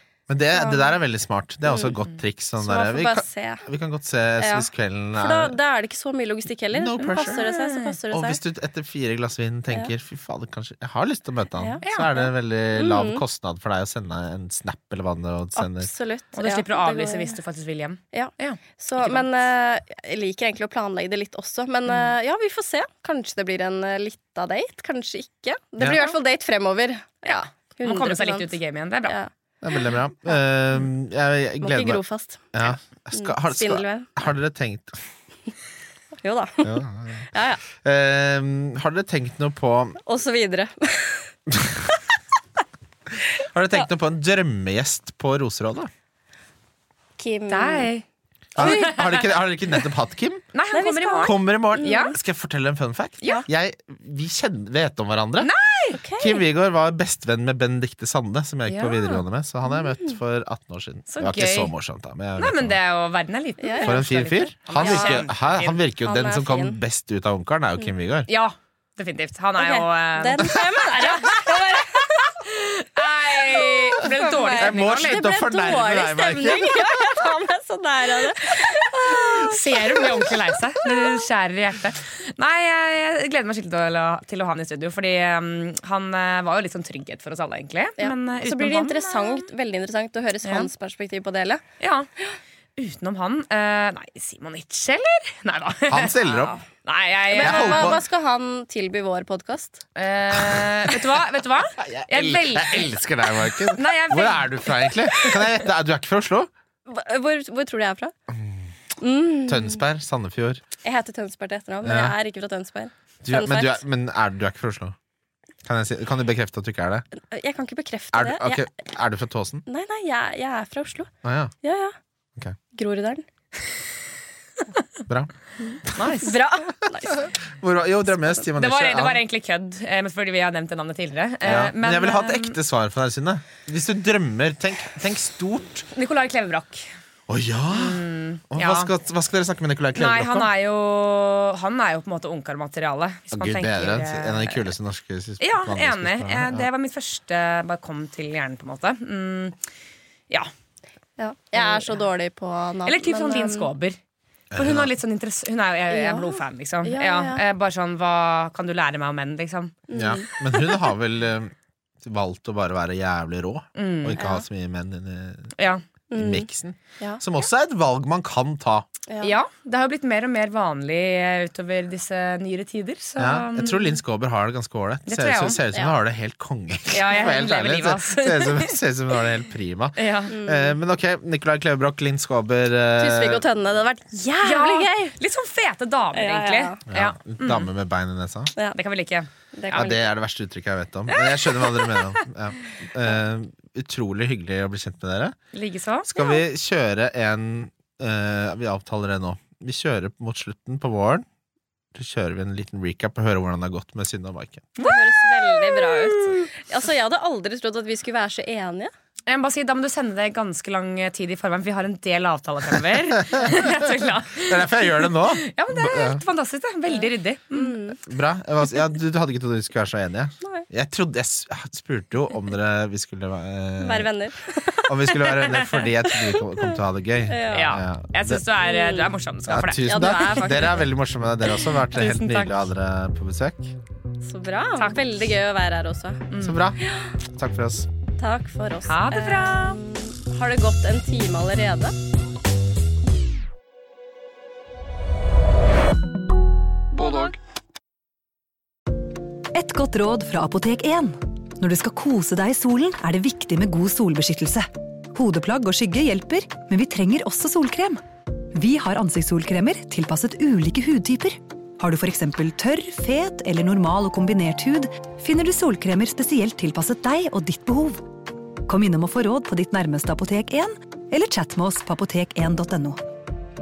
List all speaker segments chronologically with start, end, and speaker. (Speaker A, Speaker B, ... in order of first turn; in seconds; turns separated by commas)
Speaker A: 0.3-5.6, Speaker B: 0.6-0.9, Speaker B: 2.6-3.6, Speaker B: 4.4-8.4, Speaker A: 6.7-7.5, Speaker C: 7.0-8.0, Speaker A: 8.1-15.9, Speaker C: 11.8-12.3, Speaker B: 12.8-13.2, Speaker B: 15.6-17.4, Speaker C: 16.3-19.3, Speaker B: 18.1-28.5, Speaker A: 25.8-26.1, Speaker C: 27.2-29.2, Speaker A: 29.6-32.0, Speaker B: 31.6-32.5, Speaker A: 32.5-35.0, Speaker B: 33.1-34.2, Speaker B: 36.2-36.8, Speaker A: 36.6-40.0, Speaker B: 37.3-37.6, Speaker B: 40.0-41.3, Speaker A: 41.5-41.8, Speaker A: 43.4-45.9, Speaker B: 47.2-47.9, Speaker C: 47.5-48.0, Speaker A: 48.6-50.5, Speaker C: 48.6-49.4, Speaker B: 48.6-48.9, Speaker C: 50.5-52.2, Speaker B: 50.7-52.2, Speaker A: 51.2-55.5, Speaker C: 55.4-56.0, Speaker B: 55.9-56.4, Speaker A: 56.2-62.8, Speaker C: 58.7-59.2, Speaker C: 61.1-61.7, Speaker C: 62.4-65.8, Speaker B: 63.6-64.0, Speaker A: 63.8-68.3, Speaker B: 64.8-65.2, Speaker B: 66.0-66.8, Speaker C: 68.3-71.9, Speaker B: 69.6-72.4, Speaker C: 72.4-75.3, Speaker B: 73.3-81.2, Speaker A: 74.0-77.1, Speaker C: 79.4-89.5, Speaker B: 88.0-91.6, Speaker C: 90.4-90.7, Speaker C: 91.8-92.1, Speaker C: 92.8-98.0, Speaker A: 95.9-96.6, Speaker B: 97.3-99.8, Speaker A: 97.4-98.0, Speaker C: 100.0-102.9, Speaker A: 101.8-106.5, Speaker C: 103.7-105.6, Speaker B: 106.9-108.1, Speaker A: 108.3-108.7, Speaker B: 109.0-109.8, Speaker A: 109.5-110.6, Speaker B: 110.8-113.8, Speaker A: 111.8-112.2, Speaker A: 113.2-115.0, Speaker A: 115.7-117.0, Speaker B: 117.3-118.6, Speaker A: 118.1-119.7, Speaker B: 119.7-121.1, Speaker A: 121.2-121.5, Speaker B: 121.6-122.0, Speaker B: 122.7-123.2, Speaker A: 125.9-126.2, Speaker C: 126.0-126.4, Speaker B: 126.2-127.3, Speaker A: 127.1-129.2, Speaker C: 128.6-132.6, Speaker A: 131.4-135.9, Speaker C: 135.9-136.9, Speaker A: 137.3-140.5, Speaker C: 137.7-138.9, Speaker C: 140.0-144.7, Speaker A: 143.3-146.7, Speaker C: 145.4-149.6, Speaker B: 151.2-153.7, Speaker C: 151.6-151.9, Speaker C: 152.9-154.0, Speaker A: 154.5-154.9, Speaker C: 154.5-159.8, Speaker B: 155.9-157.4, Speaker B: 159.9-160.7, Speaker A: 159.9-165.5, Speaker C: 163.8-164.2, Speaker C: 165.6-165.8, Speaker B: 166.1-166.5, Speaker A: 166.1-168.9, Speaker B: 169.1-169.3, Speaker C: 169.2-174.0, Speaker A: 173.2-183.4, Speaker C: 175.1-175.6, Speaker C: 176.9-178.8, Speaker C: 180.0-180.4, Speaker B: 180.3-180.7, Speaker B: 183.0-185.1, Speaker C: 184.4-187.7, Speaker B: 186.1-186.8, Speaker A: 186.9-188.5, Speaker C: 188.7-190.0, Speaker B: 189.5-190.0, Speaker A: 189.7-195.3, Speaker C: 191.1-192.2, Speaker C: 195.5-196.2, Speaker A: 196.1-201.2, Speaker A: 201.9-204.7, Speaker B: 204.8-208.9, Speaker C: 205.6-206.2, Speaker C: 209.3-217.8, Speaker A: 213.2-216.2, Speaker B: 216.9-218.0, Speaker A: 218.1-224.1, Speaker B: 223.8-225.7, Speaker A: 224.9-228.5, Speaker B: 226.3-226.7, Speaker B: 227.3-227.8, Speaker C: 227.5-230.6, Speaker B: 228.6-229.1, Speaker A: 229.5-233.7, Speaker B: 229.9-230.9, Speaker C: 231.9-232.7, Speaker B: 234.2-236.3, Speaker C: 236.3-236.6, Speaker A: 236.4-237.9, Speaker B: 238.2-241.9, Speaker C: 238.9-239.8, Speaker B: 246.9-247.4, Speaker D: 249.5-258.0, Speaker D: 258.5-268.1, Speaker D: 268.7-273.0